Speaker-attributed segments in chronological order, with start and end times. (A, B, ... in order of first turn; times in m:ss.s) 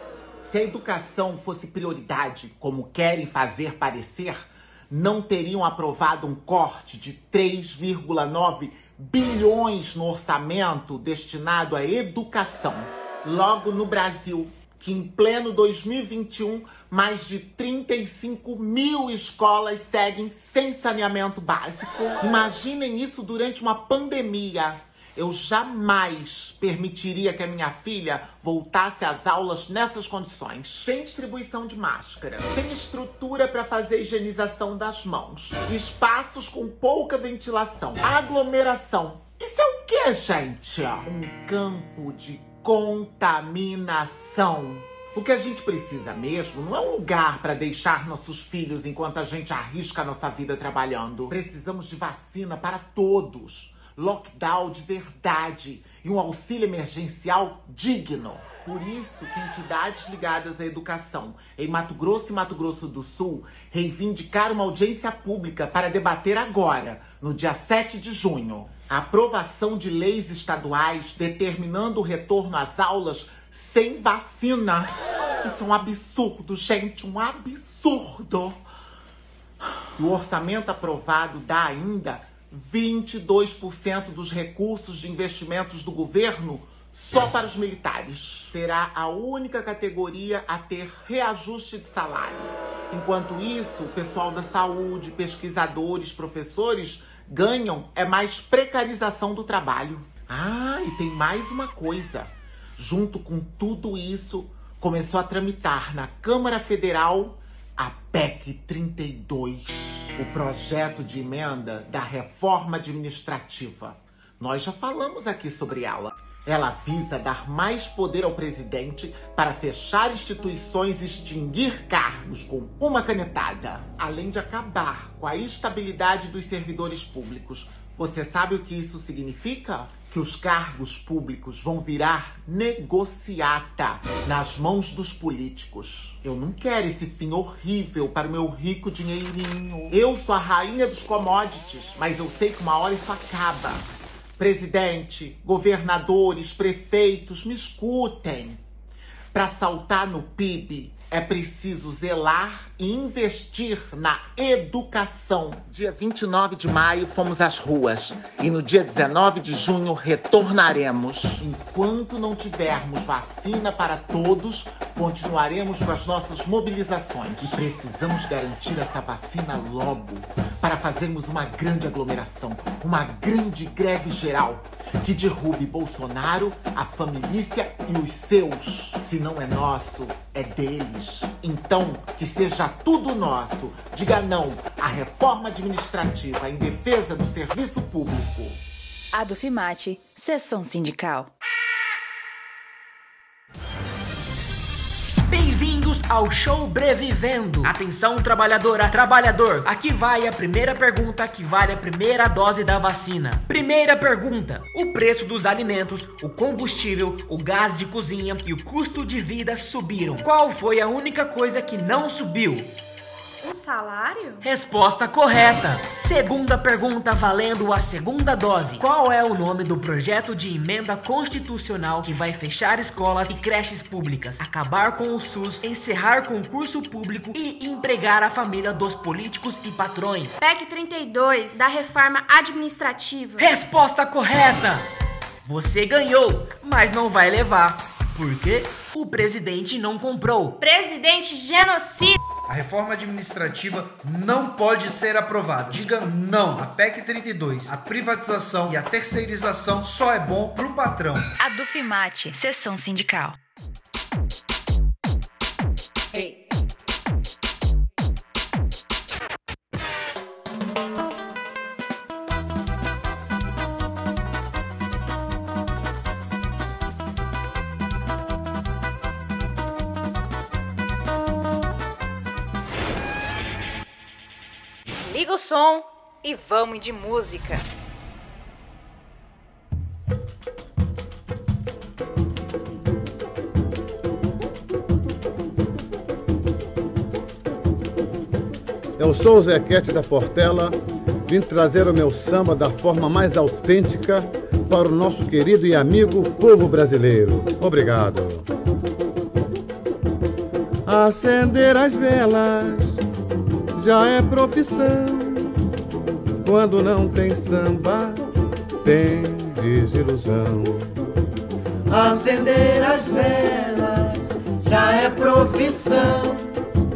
0:00.4-1:18.6 A
1:20.0-2:23.8 A
2:24.4-2:28.6 A
2:29.3-3:08.6 A
3:09.1-3:11.3 B
3:15.3-3:32.7 C
3:33.4-3:34.4 D
3:34.4-3:50.4 C
3:50.4-3:53.5 D
3:53.4-3:54.9 C
3:55.4-4:00.6 C
4:00.6-4:02.2 D
4:02.5-4:11.3 E
4:11.4-4:13.4 B
4:35.0-4:37.6 B
4:49.0-4:58.5 F
5:00.9-5:03.0 F
5:03.8-5:05.5 F
5:06.4-5:08.2 F
5:08.8-5:10.9 F
5:11.9-5:16.4 G